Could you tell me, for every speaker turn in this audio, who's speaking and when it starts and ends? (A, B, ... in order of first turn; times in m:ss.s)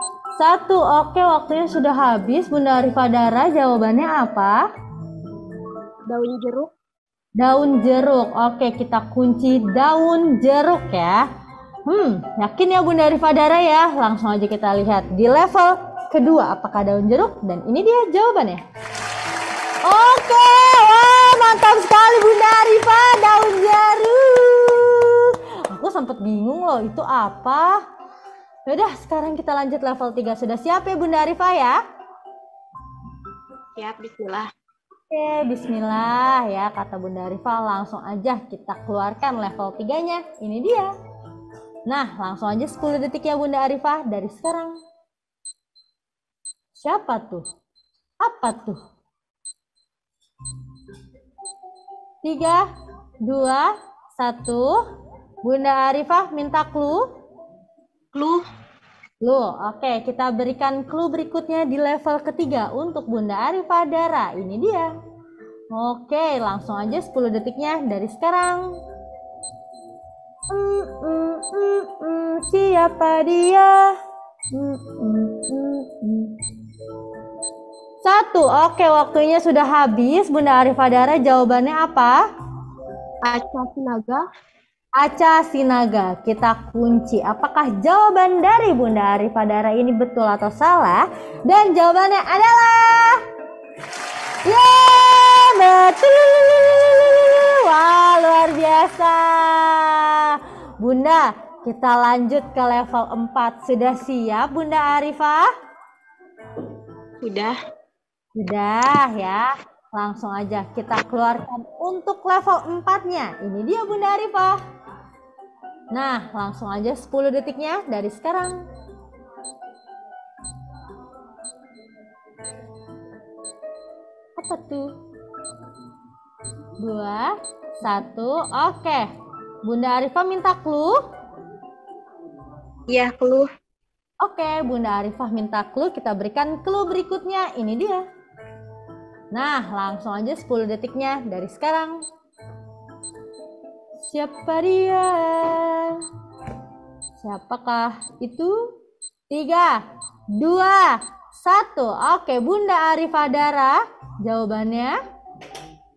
0:00.4-0:04.6 A
0:06.1-0:06.7 B
0:07.4-0:11.2 A
0:11.9-0:18.6 A
0:19.8-0:27.8 A
0:28.7-0:31.8 A
0:33.8-0:34.5 B
0:35.1-0:40.9 A
0:41.9-0:44.7 A
0:46.7-0:47.4 A
0:48.2-0:48.8 A
0:52.2-0:52.6 A
0:53.2-0:54.8 A
0:55.4-0:57.0 A
0:58.1-0:58.4 B
0:59.2-1:04.9 A
1:05.7-1:08.8 A
1:10.5-1:13.9 A
1:14.5-1:16.3 A
1:18.0-1:22.2 A
1:23.2-1:24.2 B
1:25.0-1:33.2 A
1:34.4-1:45.4 A
1:47.2-1:47.5 B
1:48.4-1:54.6 A
1:55.9-1:58.6 A
2:04.4-2:04.9 A
2:06.8-2:09.1 A
2:09.6-2:11.0 A
2:12.9-2:13.5 B
2:14.2-2:18.0 A
2:19.3-2:22.0 A
2:24.0-2:26.0 A
2:27.2-2:28.5 A
2:29.3-2:29.8 A
2:30.4-2:35.0 A